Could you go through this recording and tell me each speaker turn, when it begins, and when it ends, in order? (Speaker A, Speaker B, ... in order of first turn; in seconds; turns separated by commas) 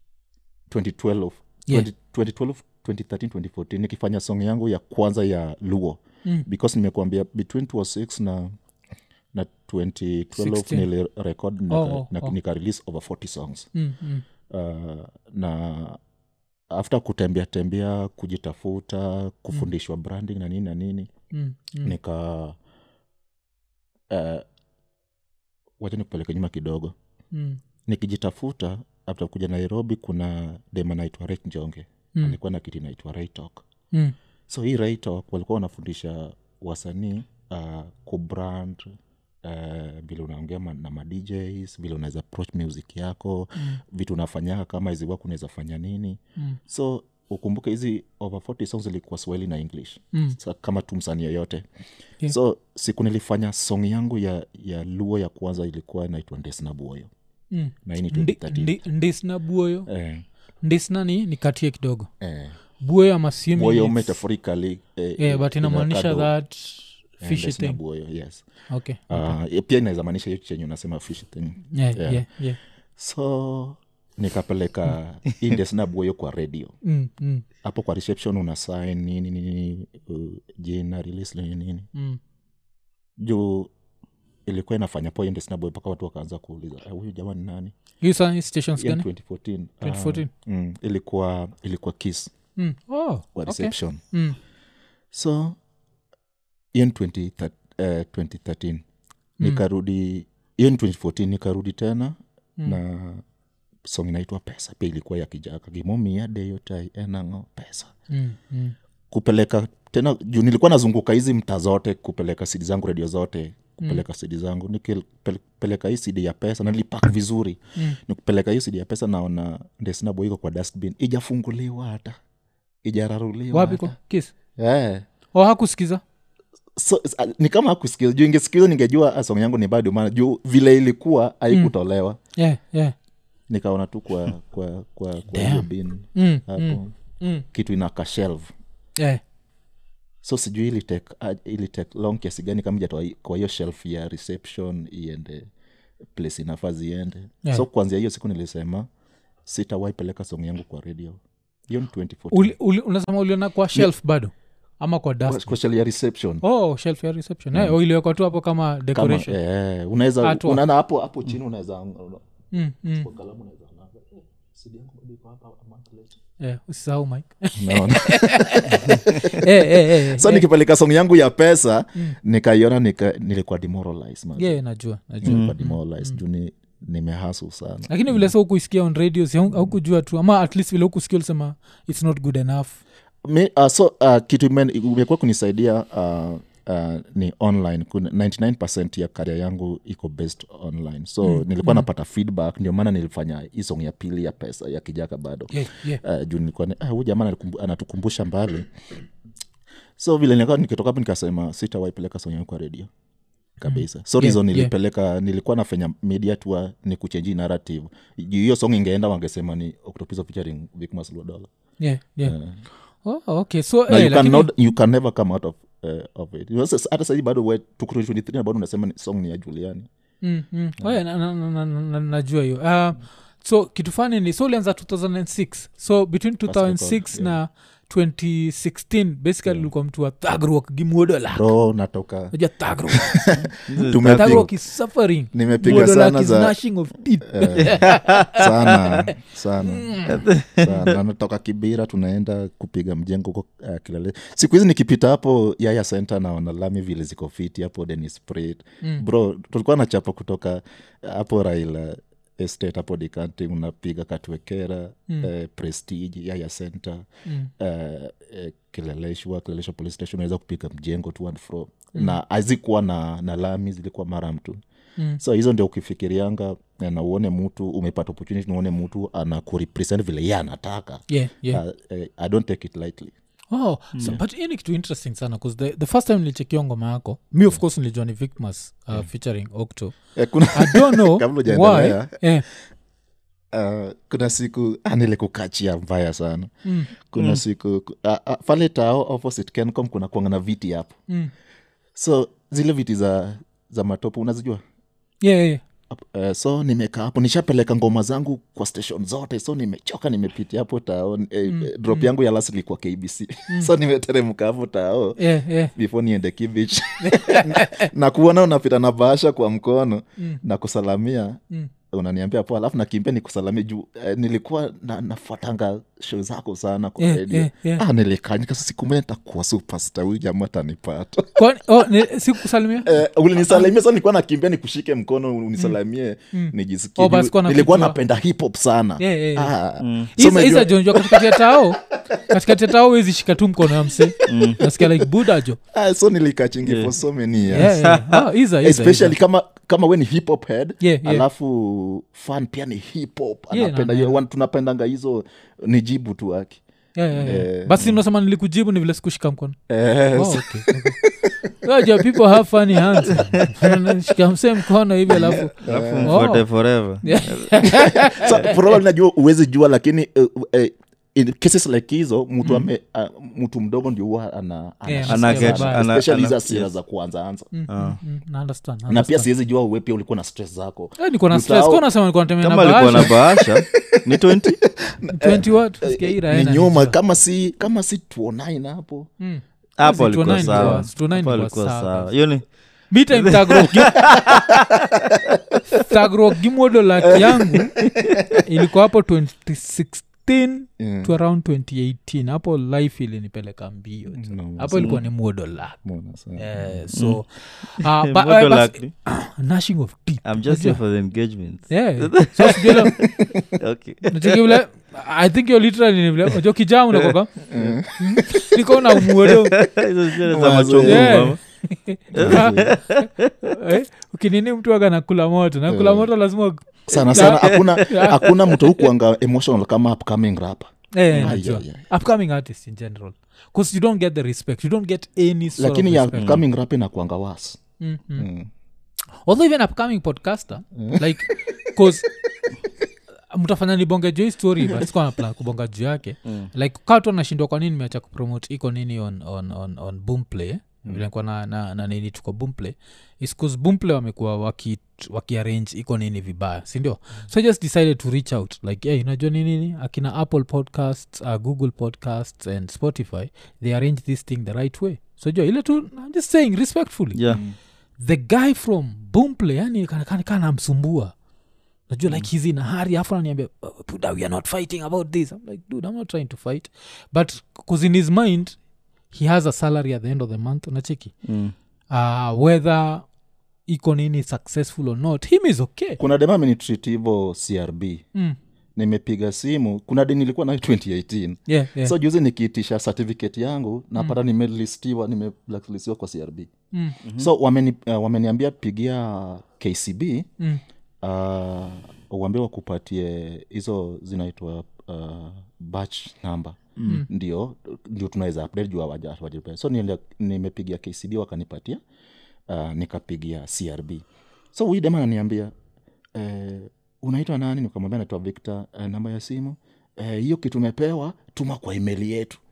Speaker A: 0.7-8.5, Speaker A: 9.3-13.7, Speaker B: 10.4-10.9, Speaker B: 11.7-12.3, Speaker B: 13.8-14.2, Speaker A: 14.5-16.0, Speaker A: 16.7-21.1, Speaker B: 21.3-21.9, Speaker A: 21.8-22.6, Speaker A: 24.1-24.4, Speaker A: 25.8-26.9, Speaker B: 27.3-27.6, Speaker A: 27.9-33.7, Speaker A: 34.5-38.9, Speaker A: 39.4-51.6, Speaker A: 52.3-57.1, Speaker B: 57.5-59.9, Speaker A: 57.9-58.8, Speaker A: 59.9-60.2, Speaker B: 60.6-62.1, Speaker A: 62.2-62.6, Speaker B: 62.8-64.2, Speaker A: 63.5-66.3, Speaker B: 65.2-67.8, Speaker A: 67.2-68.4, Speaker B: 68.7-69.4, Speaker A: 69.1-72.3, Speaker B: 71.7-72.6, Speaker A: 73.0-76.8, Speaker B: 76.8-77.5, Speaker A: 77.6-81.9, Speaker A: 83.2-83.7, Speaker A: 84.5-87.7, Speaker B: 88.0-89.0, Speaker A: 88.8-92.3, Speaker B: 89.8-90.3, Speaker B: 92.6-94.4, Speaker A: 93.3-94.0, Speaker A: 95.1-95.6, Speaker A: 96.7-98.8, Speaker A: 99.4-103.2, Speaker A: 103.8-107.9, Speaker B: 108.1-108.8, Speaker A: 109.1-122.2, Speaker A: 122.8-124.0, Speaker B: 123.5-124.3, Speaker A: 124.6-125.0, Speaker B: 125.3-126.0, Speaker A: 126.8-132.2, Speaker B: 132.4-132.9, Speaker A: 133.5-136.9, Speaker B: 135.3-137.4, Speaker A: 137.5-138.5, Speaker A: 140.2-145.5, Speaker A: 146.2-148.9, Speaker A: 149.5-152.5, Speaker B: 152.3-155.5, Speaker A: 155.3-156.4, Speaker B: 156.4-159.4, Speaker A: 157.5-157.8, Speaker A: 158.9-162.2, Speaker B: 160.2-160.6, Speaker B: 162.5-163.1, Speaker A: 162.9-166.2, Speaker B: 166.4-170.5, Speaker A: 167.6-174.6, Speaker B: 174.4-176.2, Speaker A: 175.2-178.3, Speaker C: 175.3-175.5, Speaker B: 177.9-182.8, Speaker A: 183.2-198.7, Speaker B: 191.2-191.9, Speaker B: 195.5-196.0, Speaker A: 200.0-202.9, Speaker B: 203.6-204.7, Speaker A: 203.6-211.5, Speaker B: 211.8-212.3, Speaker A: 212.2-212.6, Speaker B: 213.0-214.5, Speaker A: 213.9-219.9, Speaker B: 220.2-231.5, Speaker A: 226.5-227.4, Speaker A: 231.3-232.3, Speaker B: 232.3-238.8, Speaker A: 232.9-234.5, Speaker C: 233.4-234.5, Speaker A: 235.3-236.6, Speaker A: 237.3-257.1, Speaker C: 237.6-238.3, Speaker B: 239.6-240.3, Speaker C: 240.1-240.9, Speaker A: 257.6-264.6, Speaker A: 265.2-273.1, Speaker B: 271.1-271.6, Speaker B: 273.5-280.0, Speaker A: 280.1-282.2, Speaker B: 280.5-282.5, Speaker A: 283.5-290.9, Speaker B: 286.6-286.9, Speaker A: 291.9-294.6, Speaker B: 295.2-295.6, Speaker A: 295.9-305.2, Speaker B: 301.5-302.1, Speaker B: 305.2-305.7, Speaker A: 305.8-311.4, Speaker B: 307.0-307.9, Speaker A: 311.9-321.4, Speaker B: 317.0-317.8, Speaker B: 321.4-323.7, Speaker A: 322.8-332.7, Speaker B: 326.3-328.0, Speaker B: 329.0-329.5, Speaker C: 329.8-330.1, Speaker B: 330.2-335.6, Speaker A: 333.6-335.1, Speaker C: 334.3-334.6, Speaker A: 335.7-337.9, Speaker C: 336.6-337.0, Speaker B: 337.5-339.2, Speaker C: 337.6-338.2, Speaker A: 338.6-346.6, Speaker B: 340.8-341.2, Speaker B: 343.5-344.2, Speaker B: 347.0-349.6, Speaker A: 347.1-348.0, Speaker A: 349.7-353.8, Speaker B: 350.1-351.0, Speaker B: 351.6-356.5, Speaker A: 355.1-356.2, Speaker C: 355.6-358.5, Speaker B: 357.0-358.7, Speaker A: 357.6-367.5, Speaker B: 364.9-365.8, Speaker C: 365.1-366.7, Speaker B: 367.5-369.3, Speaker C: 367.7-368.0, Speaker A: 368.9-371.8, Speaker B: 371.0-373.2, Speaker C: 372.4-374.6, Speaker A: 372.9-379.1, Speaker B: 375.1-377.0, Speaker B: 379.2-382.2, Speaker C: 379.8-382.5, Speaker A: 380.3-380.9, Speaker B: 382.9-384.1, Speaker C: 383.1-385.2, Speaker A: 384.1-384.5, Speaker B: 385.8-387.8, Speaker A: 387.1-388.4, Speaker C: 387.9-388.2, Speaker B: 388.3-395.8, Speaker A: 390.8-391.1, Speaker A: 394.1-395.1, Speaker A: 395.8-396.9, Speaker B: 396.4-400.8, Speaker C: 396.9-397.2, Speaker C: 397.7-398.9, Speaker C: 400.2-404.6, Speaker B: 401.7-403.0, Speaker A: 403.0-403.5, Speaker B: 404.1-409.6, Speaker C: 406.9-407.8, Speaker A: 407.5-408.6, Speaker C: 409.3-411.4, Speaker A: 410.2-411.3, Speaker B: 410.8-418.3, Speaker A: 412.1-412.8, Speaker C: 412.1-413.3, Speaker A: 415.7-416.1, Speaker A: 416.9-421.8, Speaker C: 417.4-418.4, Speaker B: 420.9-426.4, Speaker A: 425.6-427.6, Speaker C: 426.2-426.4, Speaker B: 427.8-428.3, Speaker A: 428.2-428.5, Speaker B: 429.2-432.1, Speaker A: 430.8-432.2, Speaker B: 433.3-457.2, Speaker A: 434.6-434.9, Speaker C: 457.1-457.4, Speaker A: 457.3-457.6, Speaker B: 458.0-461.1, Speaker B: 461.9-468.6, Speaker B: 469.1-471.2, Speaker C: 471.2-471.5, Speaker B: 471.9-473.1, Speaker B: 473.7-476.0, Speaker A: 476.0-478.1, Speaker A: 478.8-486.5, Speaker B: 481.5-481.9, Speaker C: 487.0-487.3, Speaker A: 487.1-490.3, Speaker A: 491.0-501.8, Speaker A: 502.5-505.5, Speaker A: 506.1-512.4